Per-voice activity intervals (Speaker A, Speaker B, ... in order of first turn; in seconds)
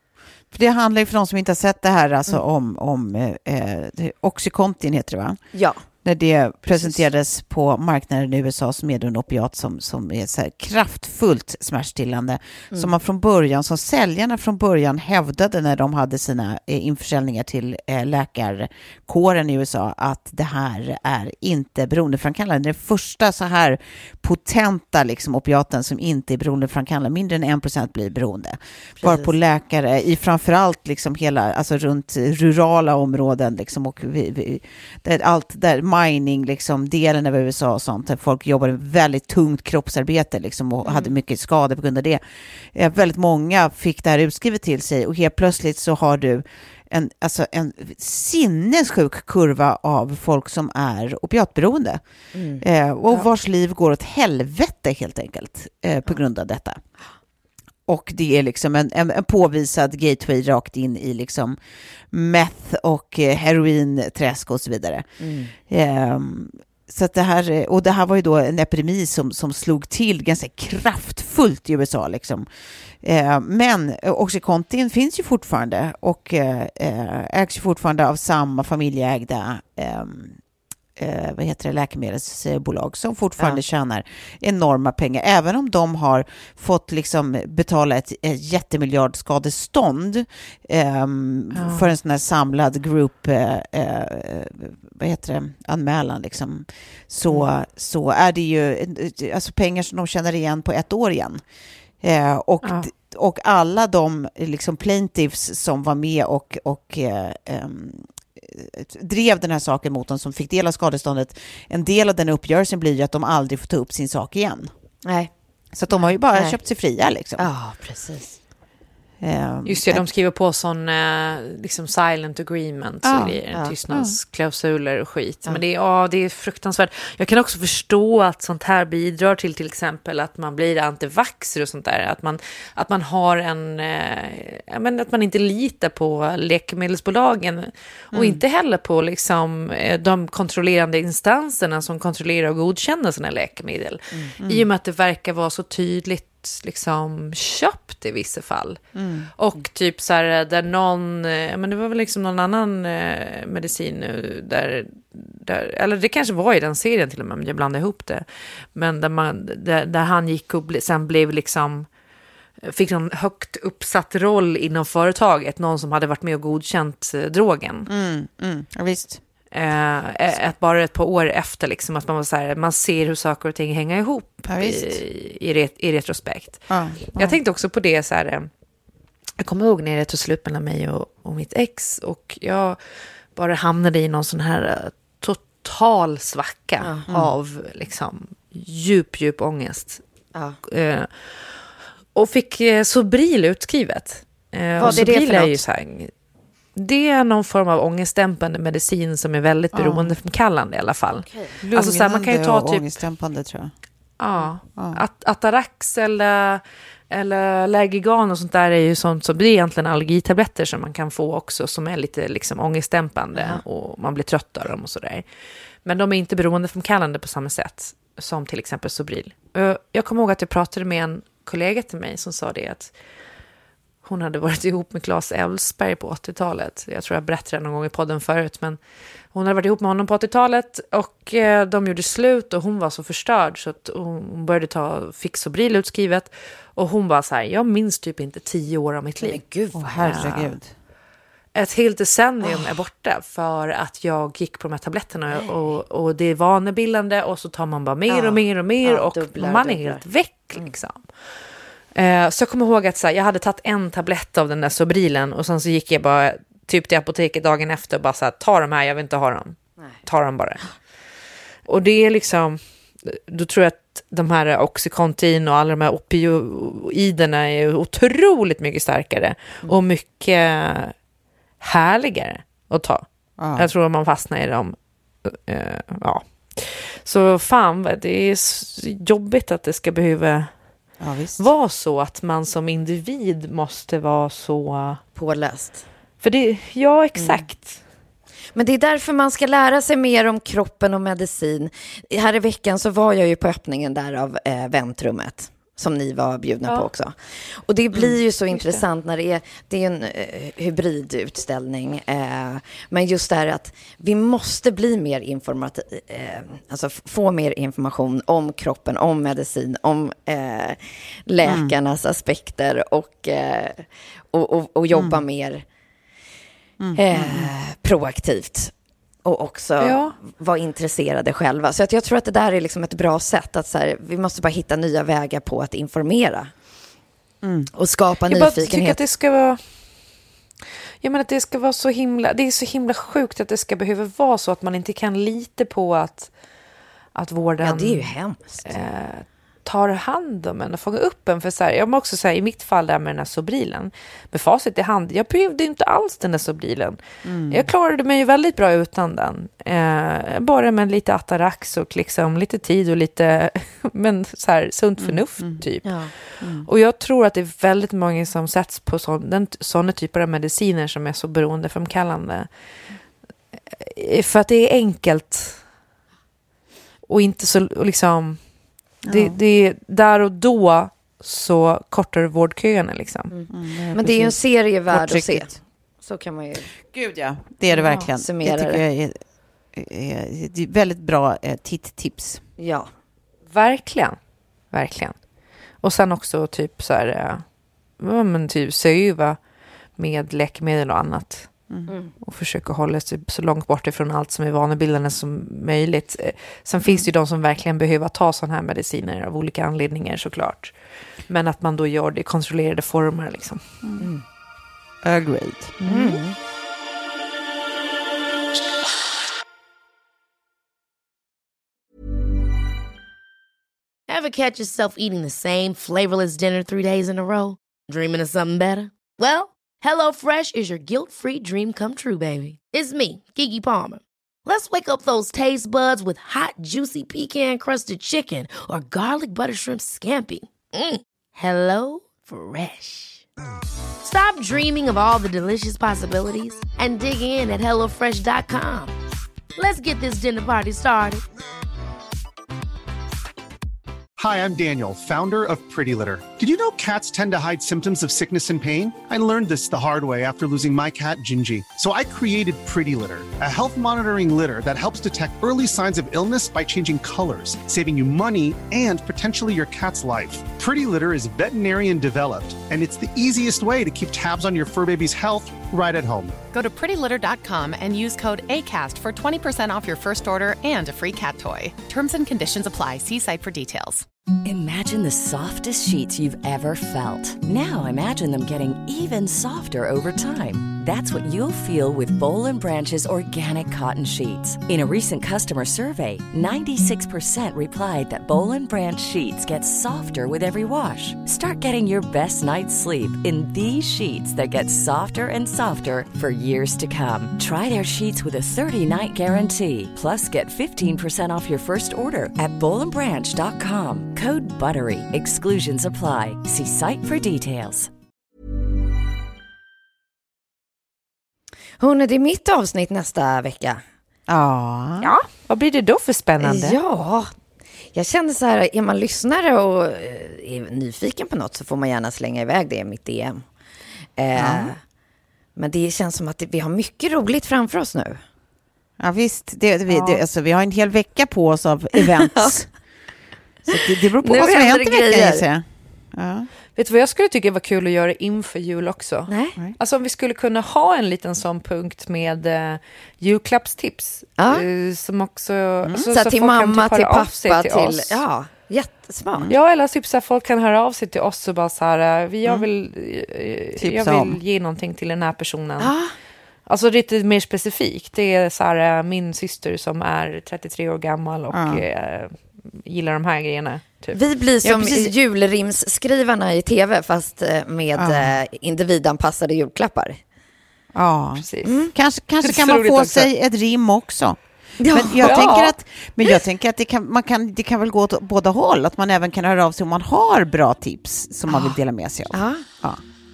Speaker A: 0.5-5.4, 6.0-42.2, 42.7-52.0, 52.6-56.8, 57.9-61.6, 62.1-65.1, 65.6-72.5, 73.0-80.4, 81.0-101.4, 102.0-114.7, 115.7-117.5, 119.2-120.0, 123.0-124.2, 138.1-138.4, 144.4-144.7, 148.9-149.3, 167.9-169.2, 174.5-175.0, 176.7-177.4, 199.7-200.1, 201.6-203.7, 204.8-205.0, 239.7-240.7, 273.4-273.7, 281.0-281.5, 297.9-298.2, 311.4-311.7, 314.9-315.2, 316.8-317.5, 327.4-327.7, 347.2-347.7, 355.0-355.6, 356.4-356.7, 369.0-369.4, 373.5-375.6, 376.8-379.2, 379.7-382.4, 403.8-404.1, 405.0-406.2, 514.3-515.1, 524.4-524.7, 529.0-532.7, 533.7-536.5, 553.8-554.4, 561.5-561.8, 564.6-565.1, 568.0-568.4, 570.9-583.0
Speaker B: 5.5-5.8, 29.0-29.3, 52.3-52.6, 65.2-65.5, 115.0-115.3, 117.4-118.4, 186.8-187.1, 194.8-195.6, 201.3-201.6, 239.2-240.3, 242.4-242.7, 245.3-245.8, 248.1-250.7, 285.1-285.9, 287.2-287.4, 288.5-315.6, 316.9-318.7, 319.2-326.5, 327.7-329.0, 337.6-338.6, 355.8-356.1, 373.3-376.7, 378.1-378.8, 382.6-382.9, 405.9-406.4, 511.8-513.8, 516.4-517.3, 517.9-523.5, 524.2-524.8, 525.5-528.2, 529.9-530.2, 532.2-532.5, 534.2-535.4, 539.3-539.6, 544.4-544.6, 546.0-549.5, 555.8-556.1, 564.1-570.2, 571.6-571.9, 574.8-575.7, 582.3-582.6
Speaker C: 91.5-91.9, 102.6-102.9, 119.7-148.8, 149.4-161.9, 162.6-167.9, 169.5-178.5, 179.4-182.8, 183.3-190.0, 190.6-191.1, 192.1-196.1, 196.7-202.9, 204.2-215.2, 215.8-222.9, 224.0-228.8, 229.3-239.4, 240.0-240.6, 241.5-251.0, 251.9-260.7, 261.7-270.9, 271.6-280.5, 281.4-285.0, 286.2-287.8, 298.5-298.8, 319.8-320.1, 328.3-329.6, 331.0-336.3, 337.1-347.0, 347.5-362.5, 363.7-365.6, 367.1-368.4, 369.1-373.3, 377.8-378.1, 383.5-384.2, 384.7-385.2, 385.8-387.4, 388.0-389.4, 390.0-391.5, 392.2-400.7, 401.3-403.6, 515.0-516.8, 536.8-548.2, 549.5-555.9, 556.6-564.2, 571.4-571.8, 572.4-573.3, 575.2-575.7
Speaker D: 414.1-433.2, 434.0-438.9, 439.6-441.2
Speaker E: 444.2-466.3
Speaker F: 466.5-474.1
Speaker G: 474.4-507.9